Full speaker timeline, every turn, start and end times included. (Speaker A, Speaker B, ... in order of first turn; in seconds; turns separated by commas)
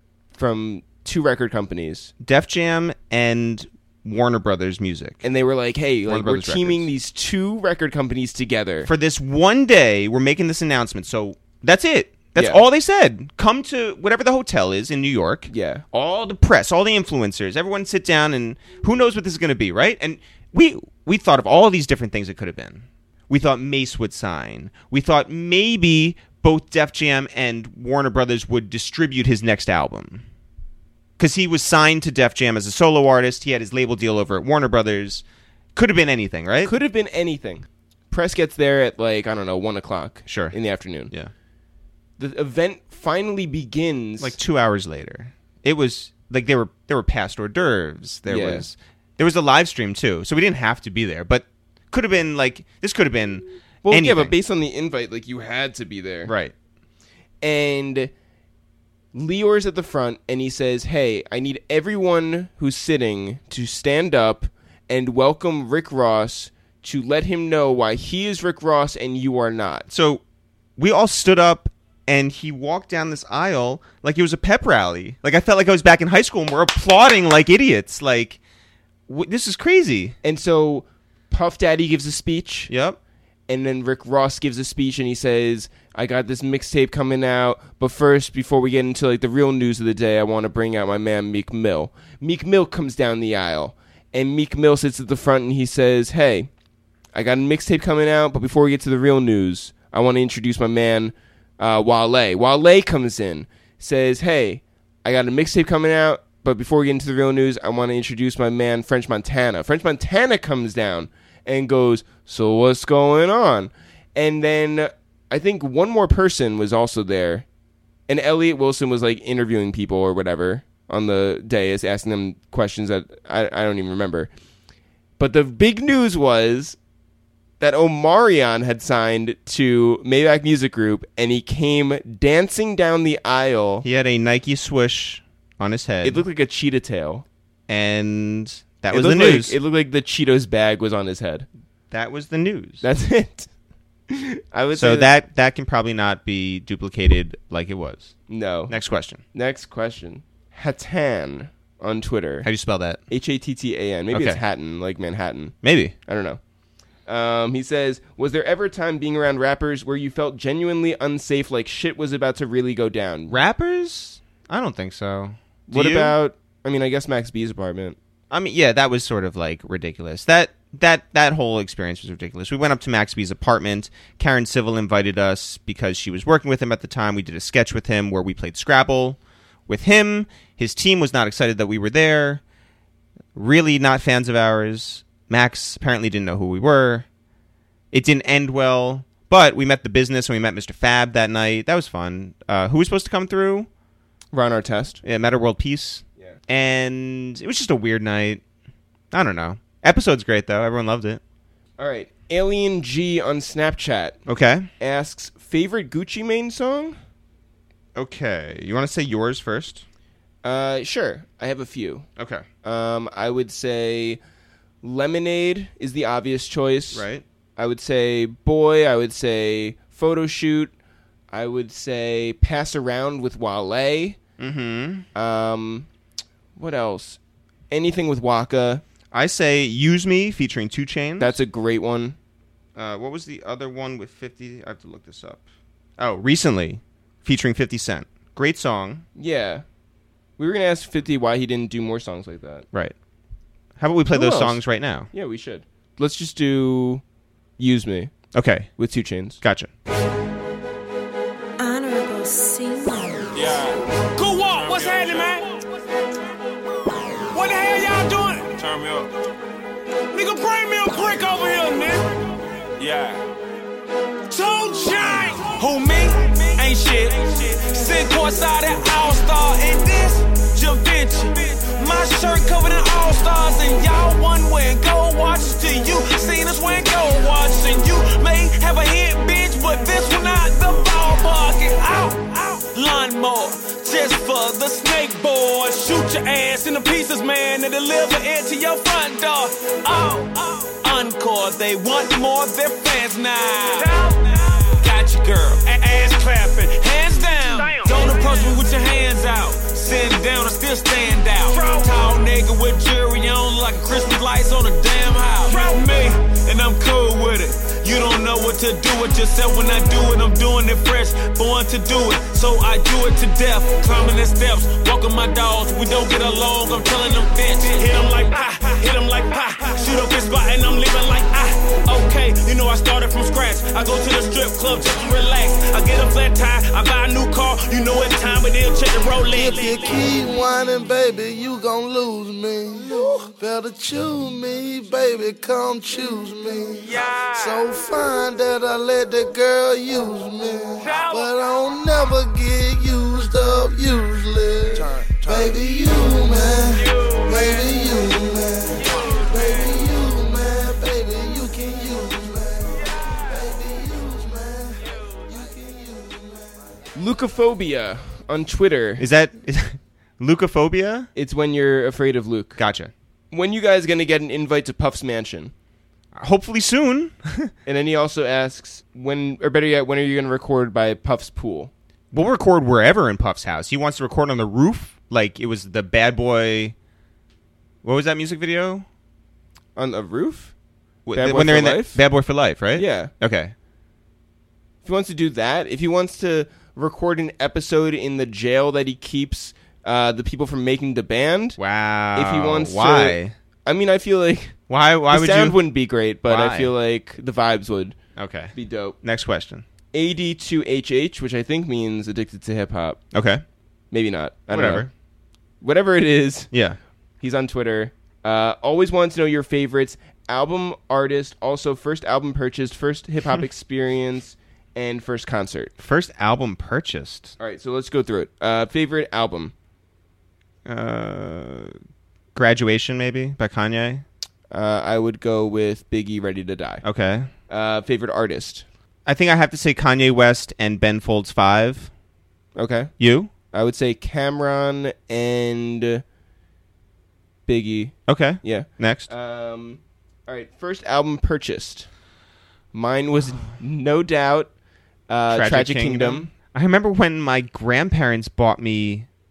Speaker A: 0.4-2.1, Speaker B: 2.2-5.2, Speaker A: 5.2-8.9, Speaker B: 6.1-6.9, Speaker B: 8.8-30.2, Speaker A: 12.4-12.6, Speaker A: 15.5-15.8, Speaker B: 31.2-35.2, Speaker B: 35.8-36.7, Speaker A: 36.6-41.1, Speaker B: 40.3-40.5, Speaker A: 42.2-44.4, Speaker B: 44.2-54.3, Speaker A: 48.3-48.7, Speaker A: 53.8-56.3, Speaker B: 56.3-56.5, Speaker A: 57.4-58.1, Speaker A: 59.1-69.9, Speaker B: 69.9-70.2, Speaker B: 70.8-78.4, Speaker B: 79.1-80.2, Speaker A: 80.2-82.7, Speaker B: 82.7-83.0, Speaker A: 83.5-96.5, Speaker A: 97.1-117.5, Speaker A: 118.1-124.3, Speaker A: 125.2-126.8, Speaker A: 127.6-133.8, Speaker B: 133.8-136.2, Speaker A: 136.0-137.2, Speaker B: 137.7-139.6, Speaker A: 138.9-141.5, Speaker B: 141.9-142.9, Speaker A: 142.8-143.5, Speaker A: 144.1-145.1, Speaker B: 144.7-148.1, Speaker A: 148.3-148.8, Speaker B: 148.7-149.2, Speaker A: 149.3-152.5, Speaker B: 152.4-153.0, Speaker A: 153.1-155.6, Speaker B: 154.1-154.4, Speaker B: 155.6-155.9, Speaker A: 156.1-156.4, Speaker A: 157.1-163.4, Speaker B: 163.3-166.2, Speaker A: 165.7-168.0, Speaker B: 168.3-182.4, Speaker B: 183.3-187.1, Speaker B: 187.9-193.7, Speaker A: 194.3-195.0, Speaker B: 195.0-198.4, Speaker B: 199.1-201.2, Speaker A: 201.8-204.2, Speaker B: 204.3-204.7, Speaker A: 204.8-207.0, Speaker B: 208.0-209.8, Speaker A: 210.4-212.1, Speaker B: 212.2-212.5, Speaker A: 212.6-214.2, Speaker A: 214.8-220.7, Speaker B: 216.9-217.2, Speaker A: 221.3-224.2, Speaker B: 224.4-225.1, Speaker A: 225.2-225.9, Speaker A: 226.6-227.2, Speaker A: 227.7-228.8, Speaker B: 229.1-231.4, Speaker A: 231.2-232.2, Speaker B: 232.8-235.4, Speaker B: 236.0-239.1, Speaker A: 239.2-239.7, Speaker A: 240.4-242.7, Speaker B: 243.8-245.1, Speaker A: 244.1-247.0, Speaker A: 247.6-248.1, Speaker B: 248.3-248.7, Speaker A: 248.8-249.4, Speaker B: 249.4-249.7, Speaker C: 251.6-253.6, Speaker D: 253.3-255.6, Speaker D: 257.3-259.1, Speaker D: 260.1-262.2, Speaker D: 262.7-263.2, Speaker D: 264.3-329.9, Speaker E: 329.3-356.7, Speaker D: 336.9-337.3, Speaker D: 340.8-341.3, Speaker A: 356.9-359.1, Speaker B: 359.0-361.1, Speaker A: 361.1-362.6, Speaker B: 362.6-362.9, Speaker A: 363.3-365.5, Speaker B: 366.1-367.5, Speaker A: 367.7-371.7, Speaker B: 372.1-376.8, Speaker B: 377.8-378.9, Speaker A: 379.8-380.5, Speaker B: 381.1-383.5, Speaker A: 381.1-382.0, Speaker A: 382.7-383.1, Speaker A: 384.8-391.6, Speaker B: 391.6-393.3, Speaker A: 392.1-394.6, Speaker B: 394.7-395.6, Speaker A: 395.1-398.0, Speaker B: 396.3-396.7, Speaker B: 398.2-399.6, Speaker A: 398.5-399.0, Speaker A: 399.9-403.0, Speaker B: 403.1-403.4, Speaker A: 403.9-404.9, Speaker B: 404.5-404.9, Speaker A: 405.6-406.5, Speaker B: 406.5-406.8, Speaker A: 407.2-415.7, Speaker B: 415.8-417.4, Speaker A: 417.4-419.5, Speaker B: 420.7-421.7, Speaker B: 422.4-424.1, Speaker A: 424.5-426.8, Speaker B: 426.8-427.3, Speaker A: 427.5-428.7, Speaker B: 429.1-431.9, Speaker A: 432.6-432.9, Speaker B: 433.0-433.3, Speaker A: 433.5-436.0, Speaker A: 437.5-441.9, Speaker B: 438.1-439.1, Speaker A: 442.7-444.5, Speaker A: 445.1-446.3, Speaker B: 445.3-449.1